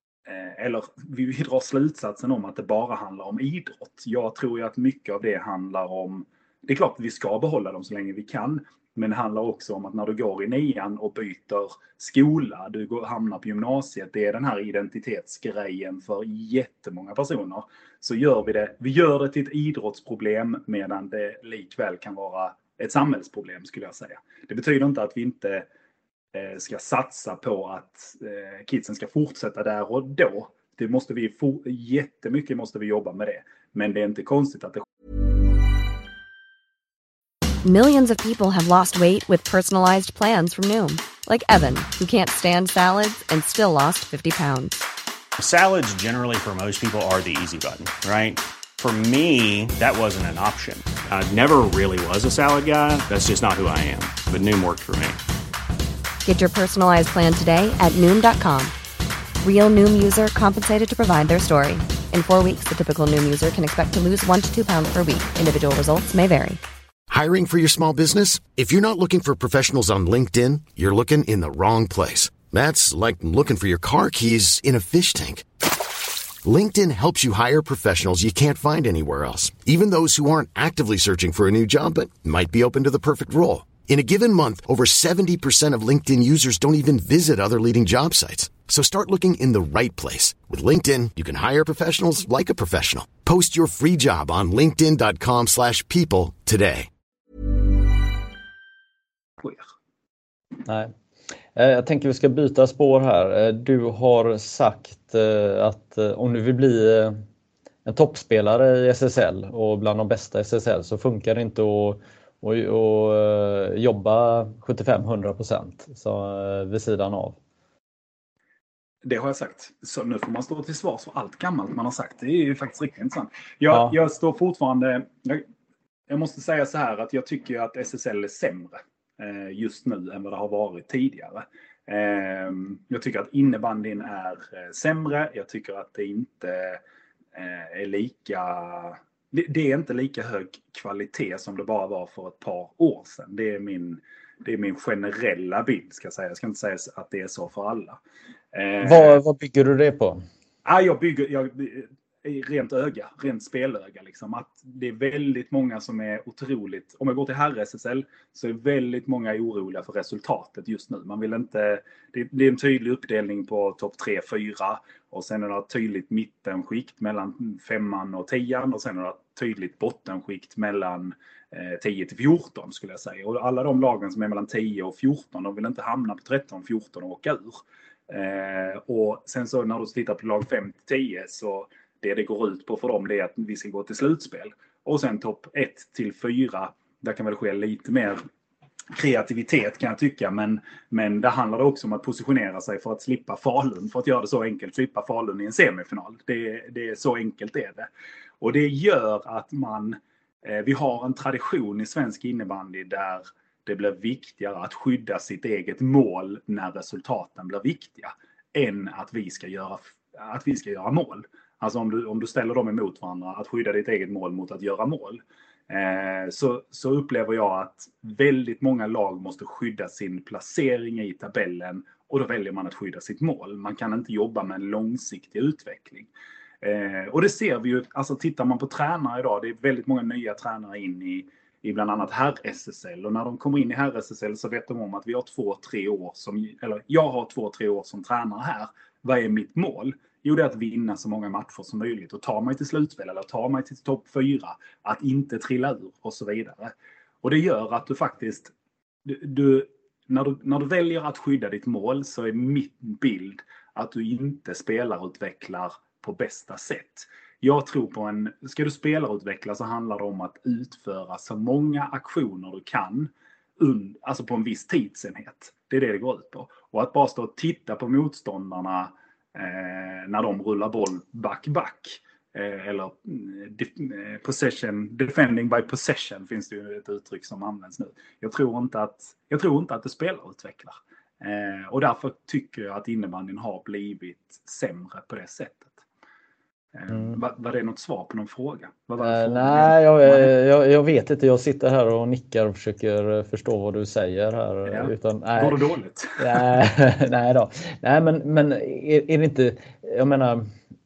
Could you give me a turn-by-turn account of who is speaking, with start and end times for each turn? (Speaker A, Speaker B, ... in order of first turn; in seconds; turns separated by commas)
Speaker A: 0.3-25.7, Speaker A: 26.3-34.9, Speaker B: 37.6-44.8, Speaker C: 45.4-55.2, Speaker B: 56.2-58.7, Speaker B: 59.4-66.6, Speaker D: 67.1-75.5, Speaker D: 76.4-96.9, Speaker E: 100.7-100.9, Speaker E: 101.5-107.2, Speaker E: 107.9-117.4, Speaker A: 119.0-125.5, Speaker A: 126.1-136.8, Speaker A: 137.3-148.0, Speaker A: 148.5-149.2, Speaker E: 148.8-150.2, Speaker A: 150.7-188.2, Speaker A: 188.9-197.9, Speaker A: 198.4-226.1, Speaker A: 226.6-248.5, Speaker A: 249.1-285.8, Speaker A: 286.7-290.3, Speaker E: 286.9-287.2, Speaker E: 289.0-295.5, Speaker A: 294.7-296.6, Speaker E: 296.2-300.5